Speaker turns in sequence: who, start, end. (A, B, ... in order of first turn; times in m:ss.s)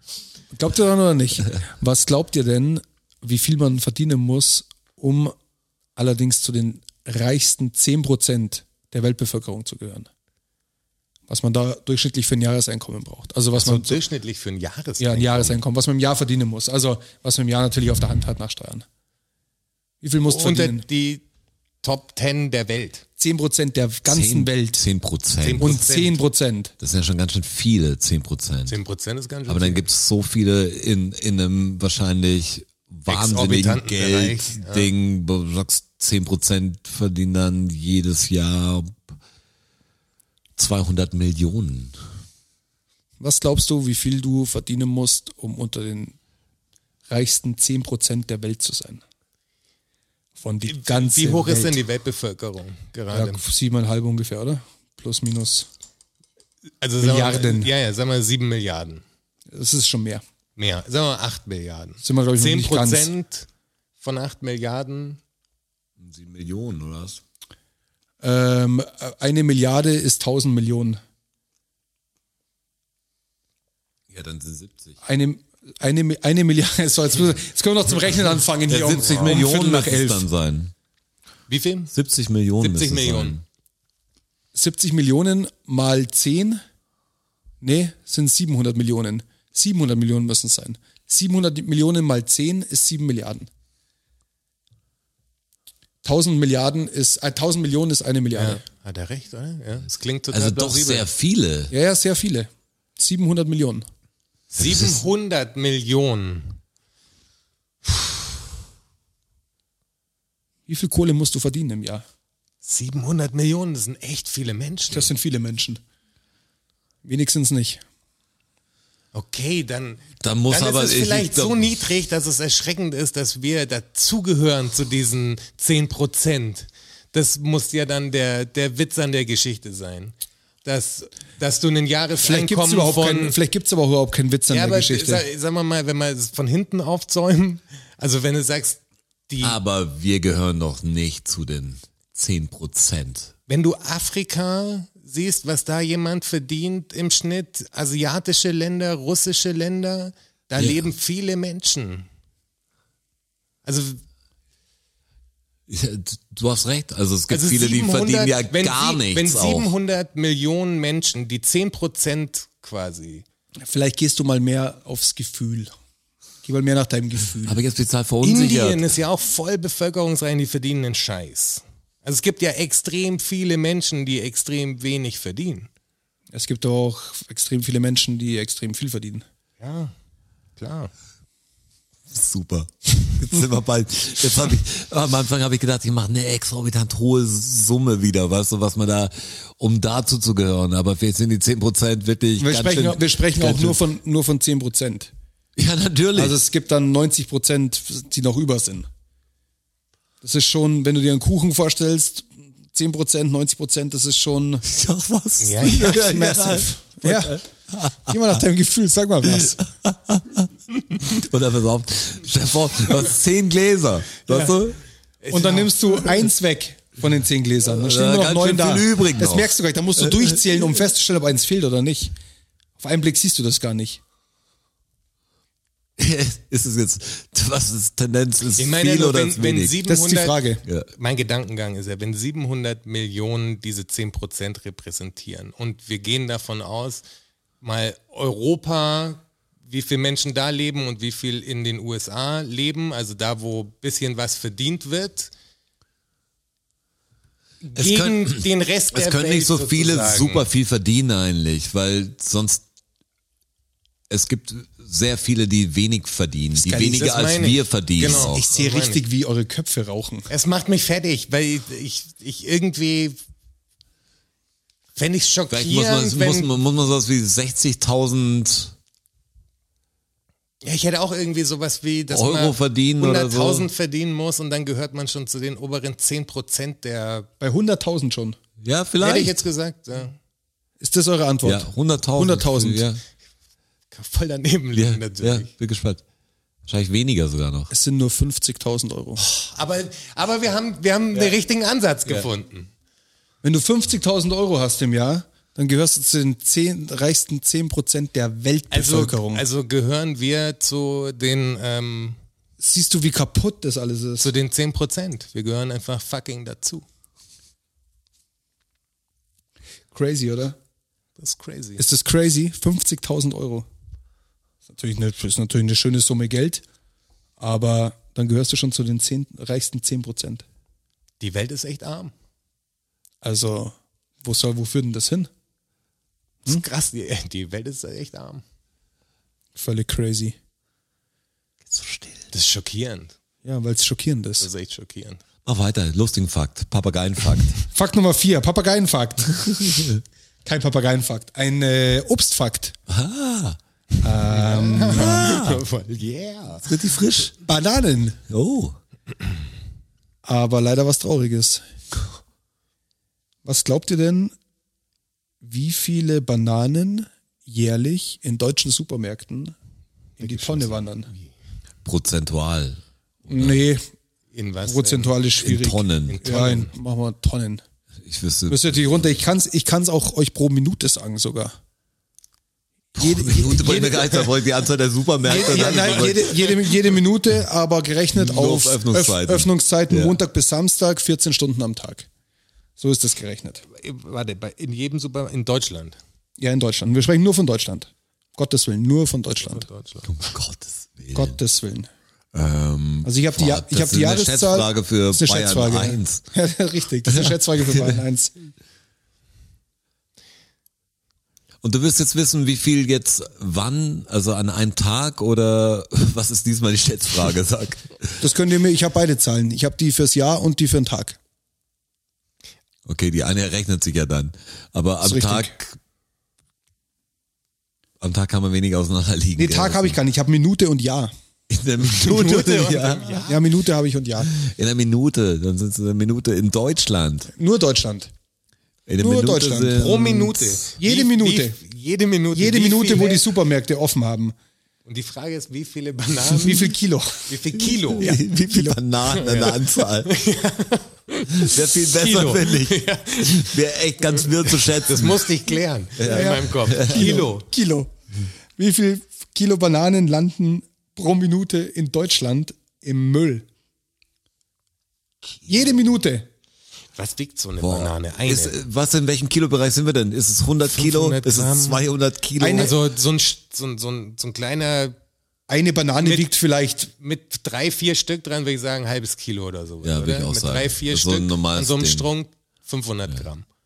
0:00.5-0:05.3 A
0:06.0-0:10.1 A
0:11.3-0:14.0 A
0:13.5-0:15.6 B
0:15.0-0:18.9 A
0:20.0-0:20.8 A
0:20.3-0:21.2 B
0:21.8-0:23.0 B
0:23.2-0:24.8 A
0:24.1-0:25.8 C
0:25.4-0:26.2 B
0:25.6-0:26.7 A
0:26.8-0:28.8 C
0:28.7-0:29.8 B
0:29.5-0:39.2 C
0:33.1-0:34.9 B
0:40.6-0:42.0 C
0:43.2-0:46.2 A
0:47.1-0:49.0 A
0:50.4-0:51.8 A
0:50.7-0:53.4 B
0:53.1-0:55.7 A
0:56.8-0:59.0 B
0:57.0-0:57.7 A
0:59.5-1:00.2 A
1:00.6-1:03.5 B
1:02.0-1:03.1 A
1:04.0-1:05.2 B
1:06.0-1:07.2 C
1:08.2-1:11.0 A
1:14.1-1:15.0 C
1:15.0-1:20.3 A
1:18.7-1:20.7 C
1:21.5-1:21.9 B
1:21.9-1:23.4 C
1:22.6-1:23.4 B
1:24.6-1:26.6 A
1:27.6-1:33.5 A
1:36.0-1:38.6 A
1:38.4-1:41.1 B
1:40.3-1:41.7 C
1:41.7-1:43.9 A
1:44.5-1:46.6 B
1:44.6-1:45.0 C
1:50.7-1:52.0 A
1:52.6-1:55.1 B
1:54.9-1:55.8 A
1:57.0-1:57.8 A
1:59.1-2:13.4 B
2:00.2-2:01.7 C
2:12.2-2:15.2 A
2:14.5-2:19.6 B
2:19.4-2:23.3 C
2:23.5-2:32.1 B
2:33.7-2:34.0 B
2:35.7-2:39.7 C
2:37.3-2:43.2 B
2:43.6-2:45.7 A
2:46.4-2:47.6 A
2:47.5-2:48.8 C
2:48.2-2:55.7 B
2:56.3-2:59.2 A
2:59.6-2:59.9 B
3:00.6-3:00.9 B
3:02.1-3:13.8 C
3:12.4-3:15.1 A
3:15.6-3:16.4 C
3:16.2-3:18.9 A
3:20.2-3:24.7 A
3:24.6-3:28.4 C
3:25.4-3:26.1 B
3:25.8-3:27.4 A
3:28.1-3:29.6 A
3:29.2-3:34.8 C
3:34.3-3:34.6 B
3:35.2-3:36.1 B
3:35.3-3:42.1 A
3:37.7-3:40.4 C
3:42.8-3:44.0 A
3:46.0-3:49.8 C
3:48.6-3:50.4 B
3:49.9-3:50.6 A
3:51.0-3:57.0 B
3:57.6-4:05.3 B
4:07.6-4:10.5 B
4:07.8-4:12.6 C
4:14.1-4:18.4 C
4:16.6-4:17.1 A
4:16.7-4:19.0 B
4:18.0-4:20.3 A
4:20.3-4:23.2 B
4:25.0-4:26.5 B
4:25.5-4:28.7 C
4:30.6-4:37.3 B
4:32.1-4:33.7 C
4:37.4-4:38.4 A
4:38.6-4:39.3 C
4:39.0-4:40.2 B
4:40.8-4:42.9 A
4:41.4-4:43.0 C
4:43.9-4:45.5 B
4:44.8-4:46.0 C
4:46.7-4:47.7 C
4:47.7-4:49.2 A
4:49.2-4:52.7 B
4:53.4-4:59.4 A
4:58.7-5:02.2 B
5:02.6-5:04.3 A
5:04.2-5:06.8 B
5:09.9-5:10.6 A
5:11.2-5:11.8 B
5:11.8-5:13.7 A
5:14.7-5:16.6 A
5:17.4-5:20.4 A
5:21.2-5:22.1 B
5:23.2-5:25.3 A
5:26.5-5:28.4 B
5:29.6-5:30.4 A
5:31.7-5:32.2 C
5:32.3-5:33.1 B
5:33.4-5:34.5 A
5:34.4-5:35.2 B
5:35.4-5:37.6 C
5:37.7-5:39.9 A
5:40.4-5:42.8 A
5:42.9-5:43.6 C
5:44.0-5:45.3 A
5:44.3-5:46.8 B
5:44.9-5:45.6 C
5:46.6-5:47.3 C
5:47.4-5:48.2 A
5:48.3-5:48.8 C
5:50.2-5:51.6 A
5:53.4-5:54.4 A
5:55.4-5:59.6 A
6:00.2-6:01.1 A
6:00.2-6:01.2 B
6:01.8-6:03.6 C
6:03.3-6:03.9 A
6:04.3-6:05.2 B
6:04.7-6:07.6 A
6:05.4-6:06.2 C
6:06.1-6:06.7 B
6:08.0-6:09.0 C
6:08.5-6:11.6 A
6:13.0-6:16.4 C
6:13.0-6:14.1 A
6:13.9-6:14.3 B
6:15.2-6:22.1 A
6:15.3-6:16.7 B
6:18.1-6:20.2 C
6:22.8-6:23.6 A
6:23.7-6:26.0 B
6:26.4-6:29.7 A
6:29.4-6:30.1 B
6:30.0-6:31.4 C
6:31.1-6:31.9 A
6:32.3-6:36.2 C
6:33.0-6:38.4 A
6:37.1-6:38.0 C
6:41.6-6:48.2 C
6:48.2-6:51.2 A
6:52.9-6:55.8 C
6:55.0-6:55.5 A
6:58.0-7:00.0 C
6:59.4-7:01.1 A
7:01.5-7:03.3 C
7:01.8-7:03.4 B
7:03.3-7:04.4 A
7:04.3-7:07.3 C
7:07.3-7:08.1 A
7:08.9-7:10.6 C
7:09.0-7:09.9 A
7:09.7-7:13.3 B
7:10.8-7:11.6 A
7:12.3-7:14.4 A
7:14.9-7:16.7 B
7:16.3-7:17.3 A
7:17.3-7:18.2 B
7:17.8-7:20.1 C
7:18.0-7:18.8 A
7:19.1-7:23.6 B
7:21.3-7:25.3 C
7:24.1-7:27.4 B
7:26.0-7:27.3 C
7:26.1-7:27.9 A
7:28.6-7:33.4 A
7:35.4-7:36.3 A
7:37.0-7:38.6 B
7:37.6-7:42.8 C
7:40.7-7:41.8 B
7:42.4-7:42.8 A
7:42.5-7:45.0 B
7:45.5-7:46.9 A
7:46.0-7:46.3 B
7:47.0-7:53.4 B
7:49.8-7:52.1 C